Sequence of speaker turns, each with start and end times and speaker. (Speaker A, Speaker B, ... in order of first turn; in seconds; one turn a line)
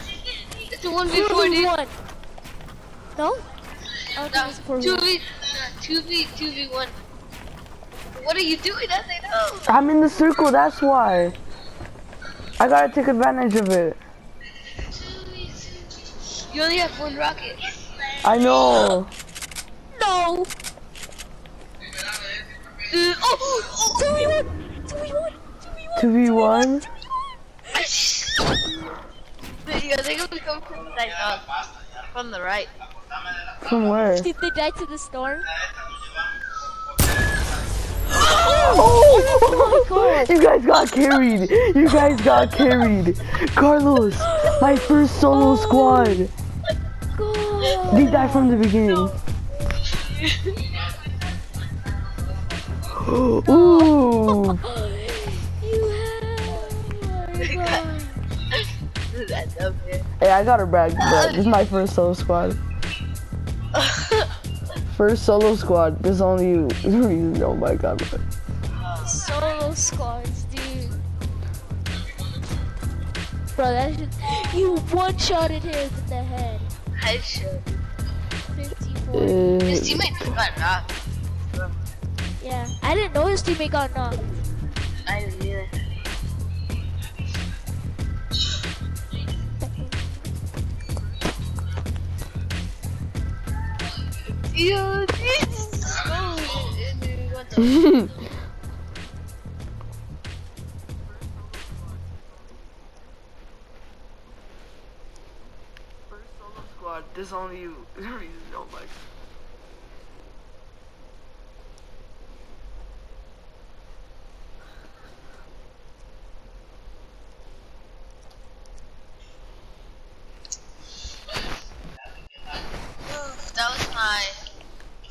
Speaker A: 0.6-1.7
Speaker B: 1.1-1.9
Speaker B: 3.1-3.4
Speaker B: 4.2-5.1
Speaker A: 4.3-7.0
Speaker A: 8.2-9.7
Speaker C: 9.7-11.4
Speaker C: 12.6-14.0
Speaker A: 15.2-15.6
Speaker A: 16.5-17.6
Speaker C: 18.2-19.1
Speaker B: 19.9-20.5
Speaker A: 22.9-23.9
Speaker B: 23.7-26.9
Speaker C: 26.0-26.9
Speaker A: 27.7-28.4
Speaker A: 29.6-31.5
Speaker A: 32.1-32.7
Speaker C: 33.6-34.3
Speaker B: 34.1-35.5
Speaker B: 38.1-40.3
Speaker C: 38.4-46.3
Speaker B: 44.2-46.2
Speaker B: 47.1-48.6
Speaker C: 47.9-49.1
Speaker A: 49.9-50.6
Speaker C: 52.9-54.6
Speaker B: 53.5-58.2
Speaker A: 57.4-57.8
Speaker A: 58.5-60.1
Speaker C: 60.2-62.6
Speaker A: 61.0-61.4
Speaker A: 63.7-64.3
Speaker C: 64.9-68.2
Speaker B: 69.0-71.0
Speaker B: 73.5-76.7
Speaker A: 77.0-77.7
Speaker B: 78.5-79.6
Speaker C: 79.1-80.1
Speaker A: 79.7-80.9
Speaker B: 82.4-84.2
Speaker A: 85.1-85.7
Speaker B: 89.6-90.1
Speaker A: 94.4-98.1
Speaker B: 95.6-95.9
Speaker C: 97.6-98.1
Speaker C: 106.1-109.0
Speaker A: 123.2-124.4